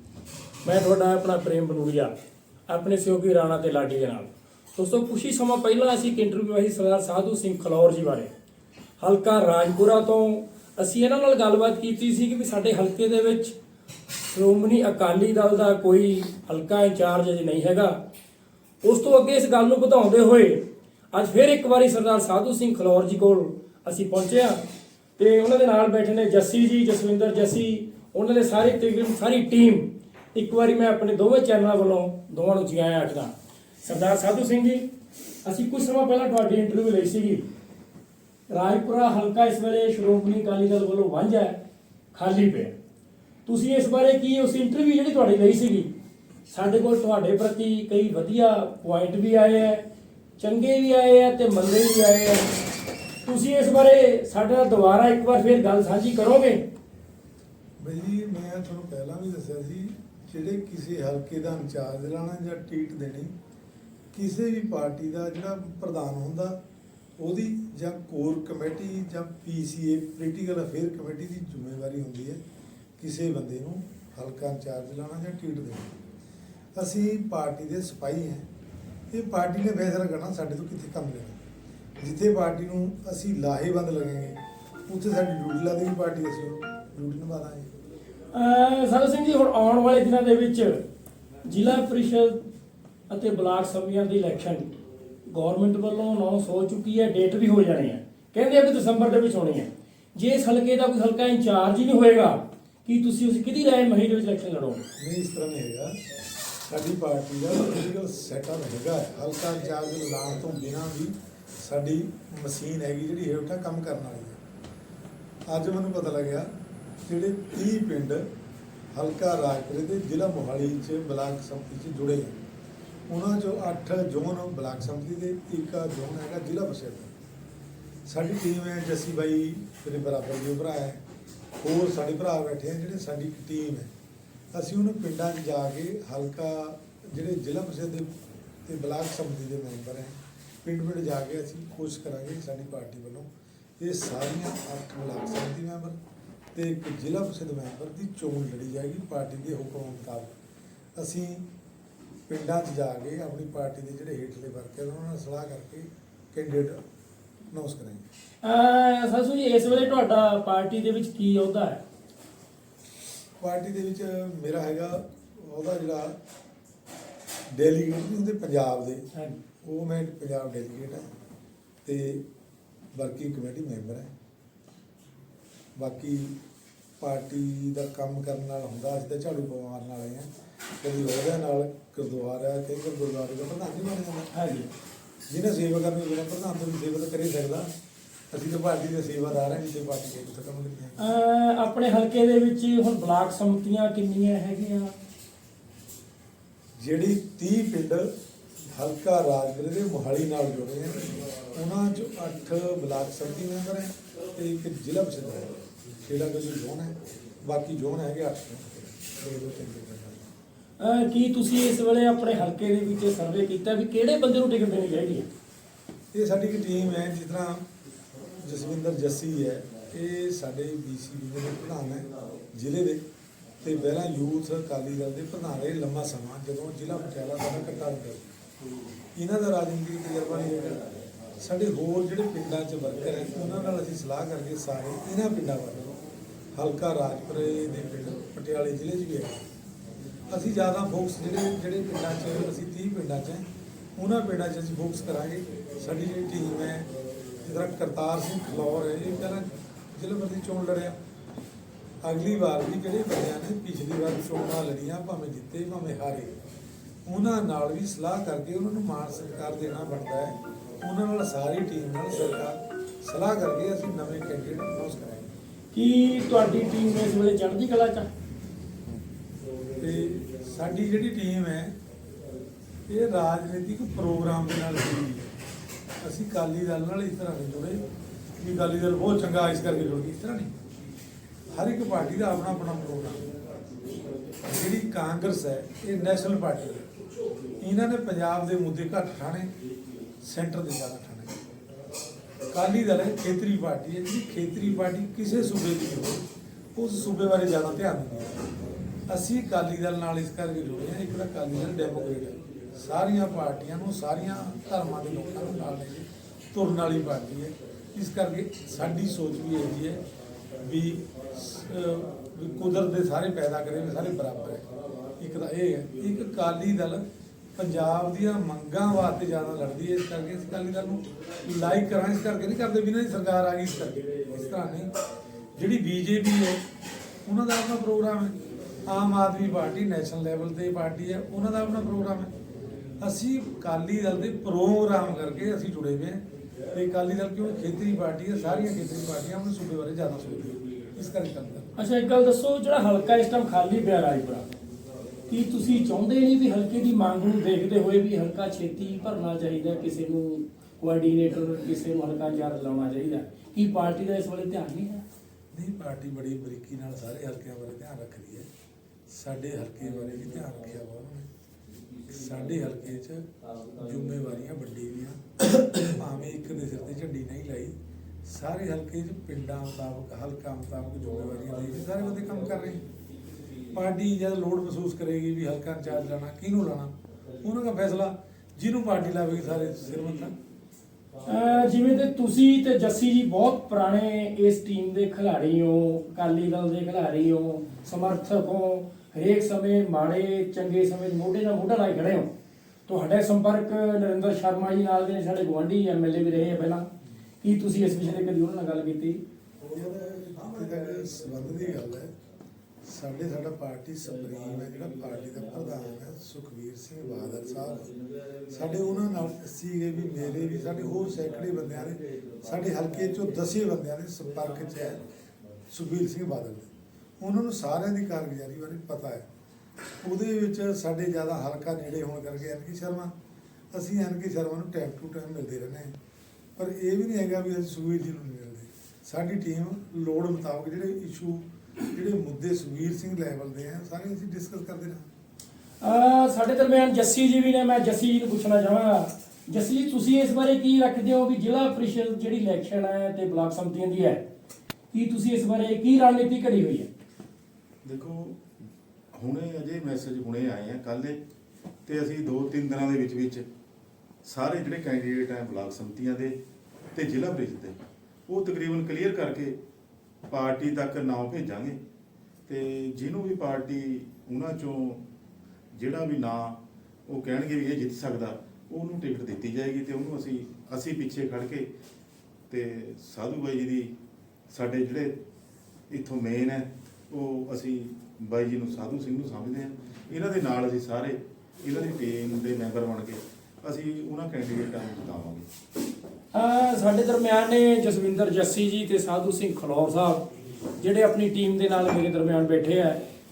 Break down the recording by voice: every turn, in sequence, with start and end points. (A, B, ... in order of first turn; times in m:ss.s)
0:00.6-0:02.1 A
0:02.7-0:08.3 A
0:09.0-0:13.6 A
0:14.3-0:18.0 A
0:18.8-0:24.6 A
0:25.2-0:34.9 A
0:35.4-0:37.4 A
0:38.5-0:41.6 A
0:42.1-0:42.8 A
0:43.5-0:45.9 A
0:46.5-0:49.8 A
0:50.4-0:52.6 A
0:53.2-0:56.6 A
0:57.8-1:03.3 B
1:04.1-1:06.6 B
1:07.2-1:12.4 B
1:13.0-1:15.9 B
1:16.8-1:18.5 B
1:19.1-1:21.4 B
1:22.0-1:27.7 B
1:28.3-1:30.8 A
1:31.4-1:32.4 A
1:33.1-1:34.7 A
1:35.3-1:44.8 A
1:45.0-1:46.0 B
1:46.7-1:54.4 B
1:55.5-1:56.5 B
1:57.0-1:58.2 B
1:58.9-2:02.4 B
2:03.1-2:07.1 B
2:08.1-2:11.0 B
2:11.6-2:13.9 B
2:14.5-2:23.3 B
2:23.8-2:26.0 B
2:26.6-2:30.4 B
2:31.0-2:31.5 B
2:32.3-2:36.8 B
2:37.5-2:38.0 B
2:38.4-2:41.8 A
2:43.4-2:46.2 B
2:47.5-2:49.1 B
2:49.6-2:51.1 B
2:51.8-2:52.2 B
2:53.0-2:54.1 B
2:55.8-2:56.4 B
2:57.0-3:00.3 B
3:00.8-3:04.3 B
3:04.3-3:04.7 A
3:05.3-3:07.7 B
3:08.3-3:11.0 B
3:11.0-3:15.0 A
3:16.8-3:18.1 B
3:18.7-3:30.3 B
3:30.8-3:35.3 A
3:36.1-3:37.7 B
3:38.4-3:43.0 B
3:43.6-3:48.4 B
3:49.2-3:56.0 B
3:56.5-3:59.5 B
4:00.3-4:06.9 B
4:07.4-4:11.0 B
4:12.0-4:16.4 B
4:17.0-4:25.3 B
4:25.7-4:28.1 A
4:29.8-4:31.8 B
4:32.9-4:35.3 B
4:36.0-4:37.8 B
4:38.4-4:40.6 B
4:41.5-4:43.3 B
4:44.4-4:46.9 B
4:47.6-4:49.5 B
4:50.2-4:51.4 B
4:52.5-4:58.4 B
4:59.1-5:10.0 B
5:10.6-5:14.7 B
5:15.2-5:24.9 B
5:25.6-5:26.6 B
5:27.2-5:32.3 B
5:33.0-5:41.7 B
5:41.8-5:44.5 A
5:45.3-5:55.0 A
5:55.5-5:58.5 B
5:59.1-6:01.3 B
6:02.1-6:12.8 B
6:13.7-6:20.4 B
6:21.2-6:32.3 A
6:32.9-6:36.9 A
6:37.4-6:39.2 A
6:39.7-6:42.1 B
6:42.8-6:47.9 B
6:48.5-6:55.1 B
6:55.7-6:56.7 B
6:57.2-6:59.3 B
7:00.0-7:03.1 B
7:03.7-7:06.0 B
7:06.6-7:15.1 B
7:15.8-7:24.2 A
7:24.9-7:26.9 A
7:27.8-7:28.4 C
7:29.1-7:31.2 C
7:31.9-7:33.5 C
7:34.2-7:36.4 C
7:36.9-7:39.6 C
7:40.3-7:41.8 C
7:42.5-7:45.0 C
7:45.7-7:51.7 C
7:52.5-7:53.9 C
7:54.5-7:55.2 C
7:55.9-8:05.5 C
8:06.3-8:10.2 A
8:10.8-8:13.0 A